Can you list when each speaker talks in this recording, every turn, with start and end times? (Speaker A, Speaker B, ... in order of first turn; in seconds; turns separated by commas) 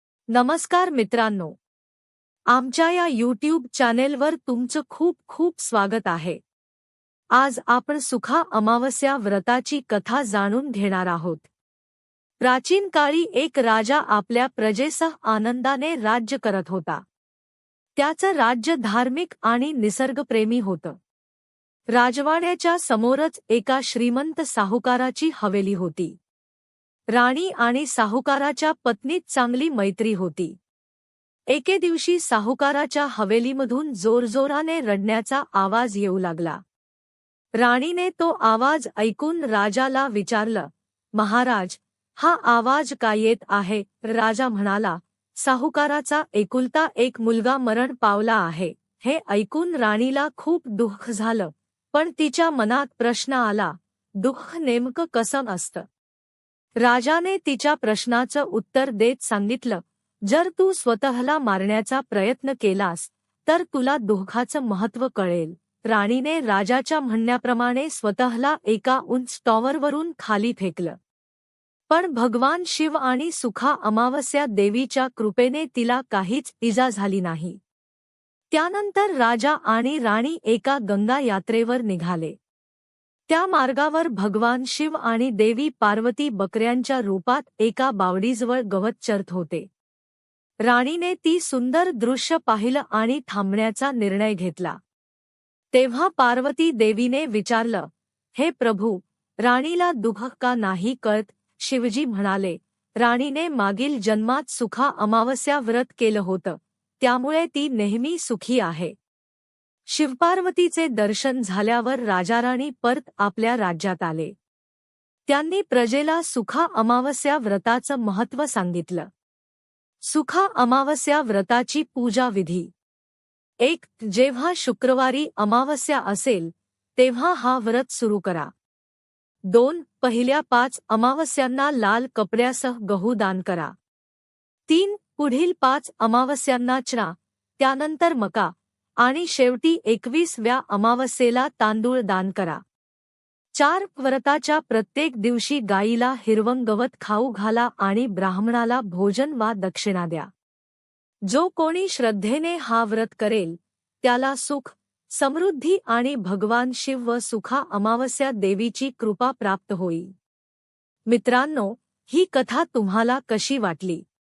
Speaker A: 0.3-1.6, Speaker A: 2.5-6.4, Speaker A: 7.3-11.5, Speaker A: 12.4-17.0, Speaker A: 17.9-21.0, Speaker A: 21.9-26.2, Speaker A: 27.1-30.6, Speaker A: 31.5-36.6, Speaker A: 37.6-55.8, Speaker A: 56.8-71.0, Speaker A: 71.9-77.6, Speaker A: 78.5-82.3, Speaker A: 83.3-89.7, Speaker A: 90.6-94.8, Speaker A: 95.7-108.9, Speaker A: 109.9-114.3, Speaker A: 115.3-119.1, Speaker A: 120.0-122.7, Speaker A: 123.6-128.5, Speaker A: 129.5-133.7, Speaker A: 134.7-142.6, Speaker A: 143.6-150.3, Speaker A: 151.2-160.1, Speaker A: 161.1-164.0